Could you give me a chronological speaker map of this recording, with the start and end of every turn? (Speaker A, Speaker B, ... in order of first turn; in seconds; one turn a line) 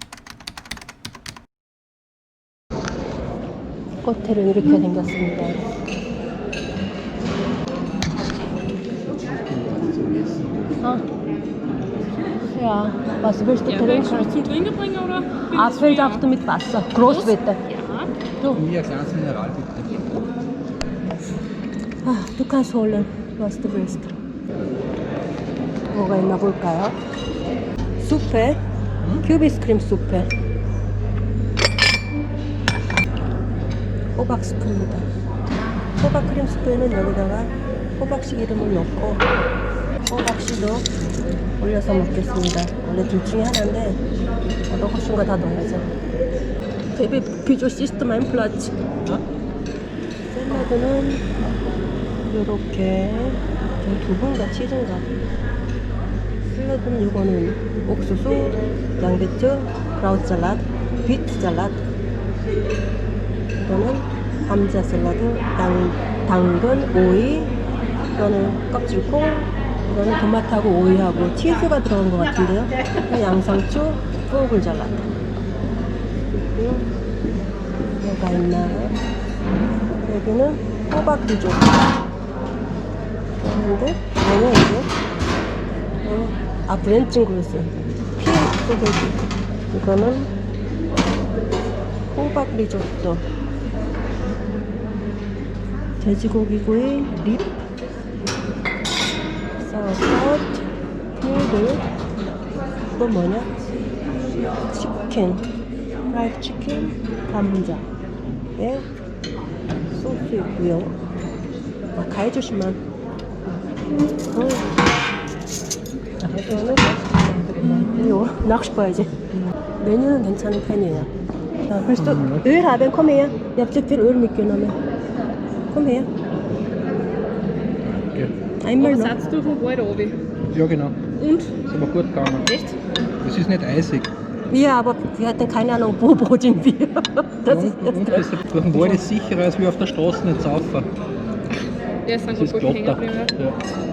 Speaker A: 4.0-5.6
Speaker B: 9.1-10.8
Speaker A: 12.5-14.6
Speaker C: 13.7-16.2
Speaker A: 15.5-17.6
Speaker C: 17.0-18.1
Speaker B: 18.5-20.1
Speaker A: 22.0-24.2
Speaker A: 25.9-27.0
Speaker A: 28.0-28.6
Speaker A: 29.2-30.3
Speaker A: 34.2-35.1
Speaker A: 36.0-39.5
Speaker A: 40.0-40.9
Speaker A: 41.6-44.0
Speaker A: 44.7-45.9
Speaker A: 46.9-49.2
Speaker A: 50.3-51.3
Speaker A: 52.3-55.1
Speaker A: 56.5-61.8
Speaker A: 63.5-67.6
Speaker A: 68.2-75.1
Speaker A: 76.5-76.9
Speaker A: 78.0-79.0
Speaker A: 80.0-81.9
Speaker A: 83.4-84.9
Speaker A: 86.0-90.3
Speaker A: 92.1-93.3
Speaker A: 96.0-97.5
Speaker A: 99.6-101.9
Speaker A: 102.9-103.5
Speaker A: 104.7-105.5
Speaker A: 106.1-107.9
Speaker A: 108.6-108.9
Speaker A: 109.9-111.0
Speaker A: 111.9-112.8
Speaker A: 114.3-114.8
Speaker A: 116.2-121.1
Speaker A: 121.7-124.8
Speaker B: 122.0-122.5
Speaker A: 125.7-126.1
Speaker B: 127.8-128.3
Speaker A: 128.6-129.2
Speaker C: 128.8-130.2
Speaker B: 130.5-131.0
Speaker C: 131.2-131.6
Speaker B: 131.7-132.6
Speaker C: 132.4-132.8
Speaker B: 133.2-134.1
Speaker A: 134.5-139.1
Speaker B: 137.5-140.9
Speaker C: 142.1-143.3
Speaker B: 142.3-143.6